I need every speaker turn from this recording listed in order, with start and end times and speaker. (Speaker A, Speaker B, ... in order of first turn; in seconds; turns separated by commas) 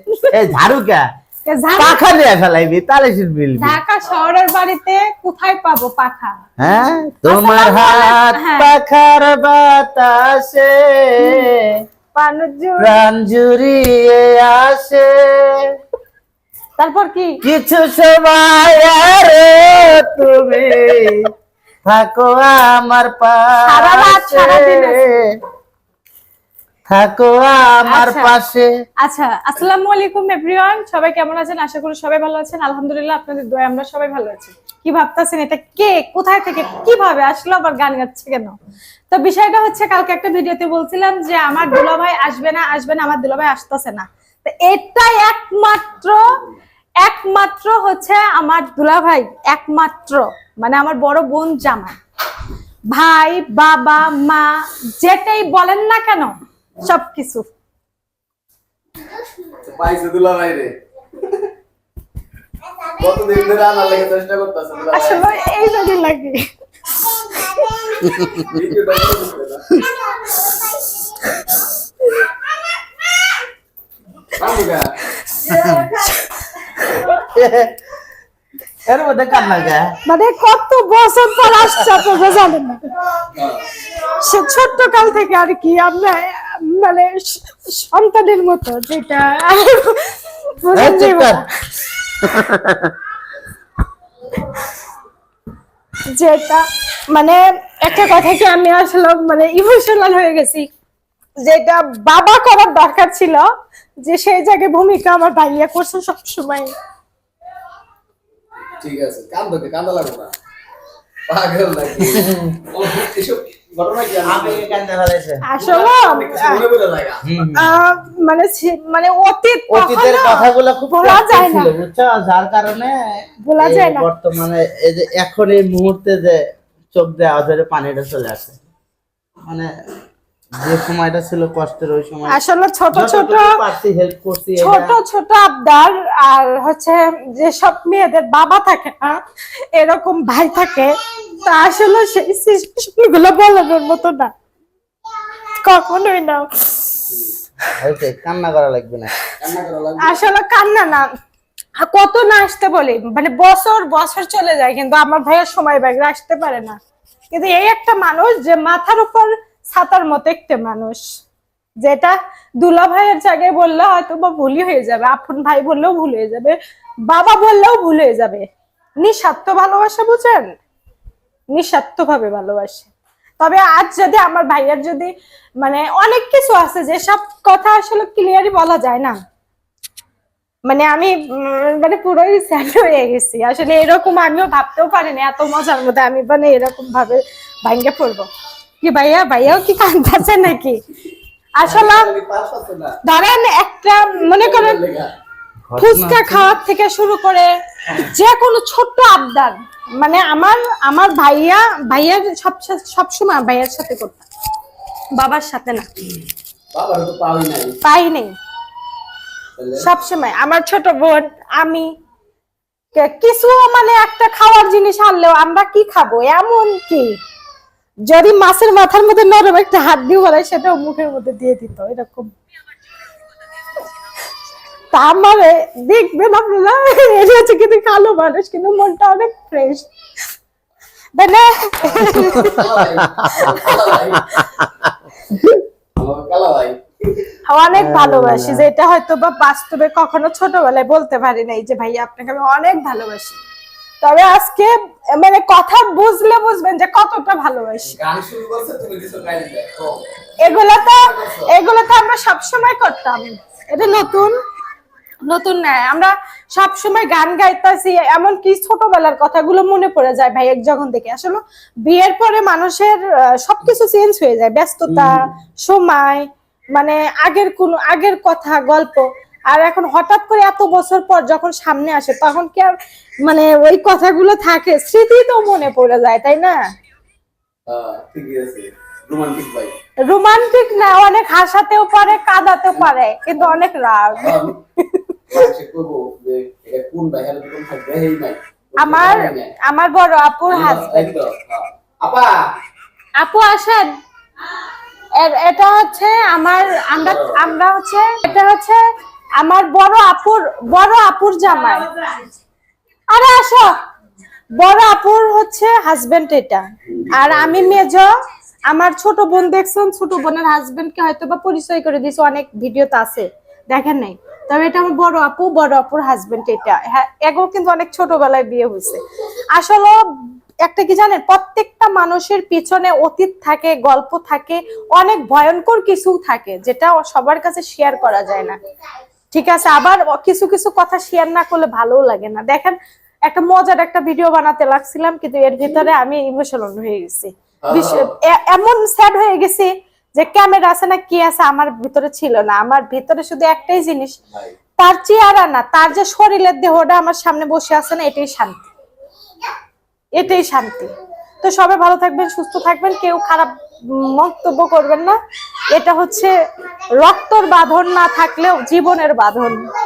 Speaker A: 0.3-1.0, Speaker B: 1.5-2.0, Speaker A: 1.8-3.8, Speaker B: 3.6-6.4, Speaker A: 6.6-11.6, Speaker B: 7.3-8.7, Speaker B: 11.2-11.5, Speaker B: 12.2-13.0, Speaker A: 12.8-15.5, Speaker B: 16.8-17.4, Speaker A: 17.4-21.3, Speaker A: 21.9-25.3, Speaker B: 23.6-25.1, Speaker A: 26.9-28.7, Speaker B: 27.9-28.4, Speaker B: 29.0-38.5, Speaker B: 39.1-46.3, Speaker B: 47.0-52.0, Speaker B: 52.9-54.5, Speaker B: 55.0-57.5, Speaker C: 59.6-60.7, Speaker C: 63.0-65.2, Speaker B: 64.9-68.3, Speaker A: 68.0-68.5, Speaker C: 68.5-69.7, Speaker B: 70.0-71.2, Speaker C: 74.4-74.8, Speaker B: 75.3-77.0, Speaker A: 75.5-75.8, Speaker A: 77.1-77.8, Speaker A: 78.9-79.9, Speaker B: 80.1-82.8, Speaker A: 81.5-82.1, Speaker C: 83.3-83.7, Speaker B: 84.0-91.4, Speaker A: 90.8-91.4, Speaker A: 92.2-92.9, Speaker B: 96.1-100.7, Speaker B: 101.4-103.5, Speaker B: 104.0-106.7, Speaker C: 108.8-110.3, Speaker C: 111.3-114.8, Speaker A: 114.2-115.4, Speaker B: 115.5-116.6, Speaker C: 115.6-117.2, Speaker A: 117.2-117.7, Speaker B: 117.5-121.7, Speaker A: 119.7-123.0, Speaker B: 123.5-124.1, Speaker A: 123.6-126.4, Speaker A: 126.9-128.5, Speaker A: 130.6-132.4, Speaker B: 132.3-133.6, Speaker A: 132.9-134.9, Speaker B: 134.6-139.2, Speaker B: 139.7-140.9, Speaker B: 141.4-144.3, Speaker B: 145.6-147.0, Speaker A: 147.8-149.1, Speaker C: 149.4-150.2, Speaker B: 150.0-151.1, Speaker B: 151.8-156.8, Speaker B: 157.3-161.0, Speaker B: 161.8-166.6, Speaker B: 167.1-168.4, Speaker B: 169.0-170.5, Speaker B: 171.5-175.1, Speaker B: 175.6-179.2, Speaker B: 180.7-188.3, Speaker B: 188.8-190.8, Speaker B: 191.6-192.1, Speaker C: 191.6-193.0, Speaker B: 193.0-194.8, Speaker C: 194.3-195.1, Speaker A: 195.7-196.5, Speaker B: 195.8-204.2, Speaker B: 205.2-205.9, Speaker C: 206.7-207.8, Speaker B: 207.8-208.3, Speaker C: 209.6-209.9, Speaker B: 209.8-211.9, Speaker B: 212.9-217.1, Speaker B: 218.1-222.3, Speaker B: 224.9-229.9, Speaker B: 231.2-232.6, Speaker A: 232.0-232.6, Speaker C: 232.1-234.3, Speaker A: 233.1-233.6, Speaker A: 234.2-235.3, Speaker C: 236.0-236.8, Speaker B: 237.5-243.4, Speaker A: 237.7-238.7, Speaker B: 244.0-247.9, Speaker C: 247.9-250.0, Speaker B: 250.4-254.3, Speaker C: 250.9-251.5, Speaker B: 255.3-276.6, Speaker C: 264.9-265.2, Speaker C: 277.7-279.7, Speaker B: 280.1-285.5, Speaker C: 282.8-283.6, Speaker C: 284.1-284.5, Speaker C: 285.3-289.5, Speaker B: 288.8-291.1, Speaker C: 290.5-292.3, Speaker B: 293.2-293.9, Speaker B: 295.2-298.8, Speaker C: 297.0-297.5, Speaker B: 299.4-301.9, Speaker B: 303.1-303.7, Speaker B: 304.6-308.1, Speaker C: 306.9-307.8, Speaker B: 308.7-319.0, Speaker B: 319.6-320.0, Speaker B: 320.6-328.6, Speaker B: 329.3-344.2, Speaker C: 337.7-338.1, Speaker B: 344.8-348.7, Speaker B: 350.1-355.2, Speaker B: 355.7-356.3, Speaker B: 357.0-359.7